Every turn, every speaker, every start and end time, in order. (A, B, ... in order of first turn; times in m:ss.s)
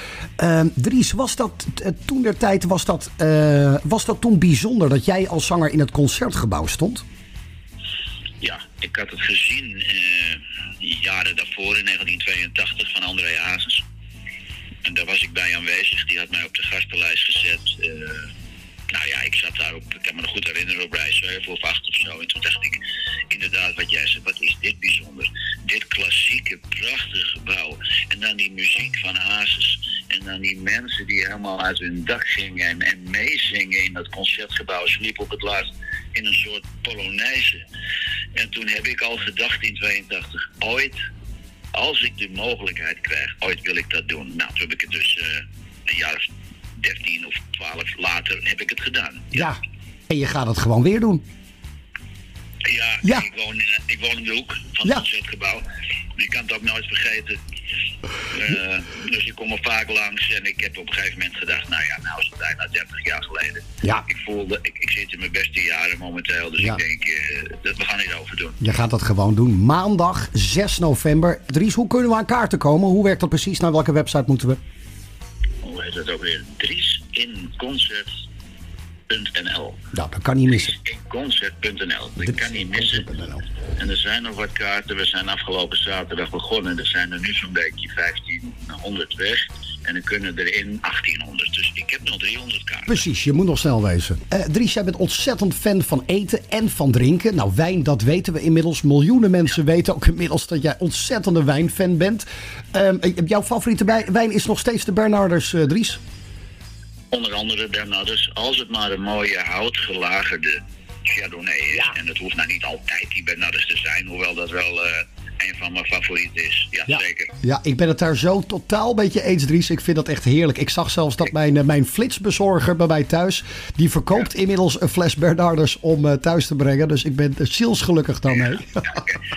0:00.4-0:07.0 A
0:08.4-0:13.8 B
0:14.8-0:18.3 B
0:18.9-0:37.6 B
0:38.3-0:41.0 B
0:41.7-0:46.2 B
0:46.8-0:49.5 B
0:49.3-0:51.2 A
0:52.6-0:55.6 B
0:56.2-0:57.4 B
0:58.2-1:08.6 B
1:03.8-1:04.1 A
1:08.6-1:14.6 A
1:15.6-1:18.2 B
1:19.1-1:19.8 B
1:19.9-1:20.8 A
1:20.5-1:23.0 B
1:22.2-1:23.4 A
1:23.8-1:32.9 B
1:32.9-1:46.0 A
1:47.1-1:57.3 B
1:56.9-2:09.0 A
2:08.9-2:09.2 B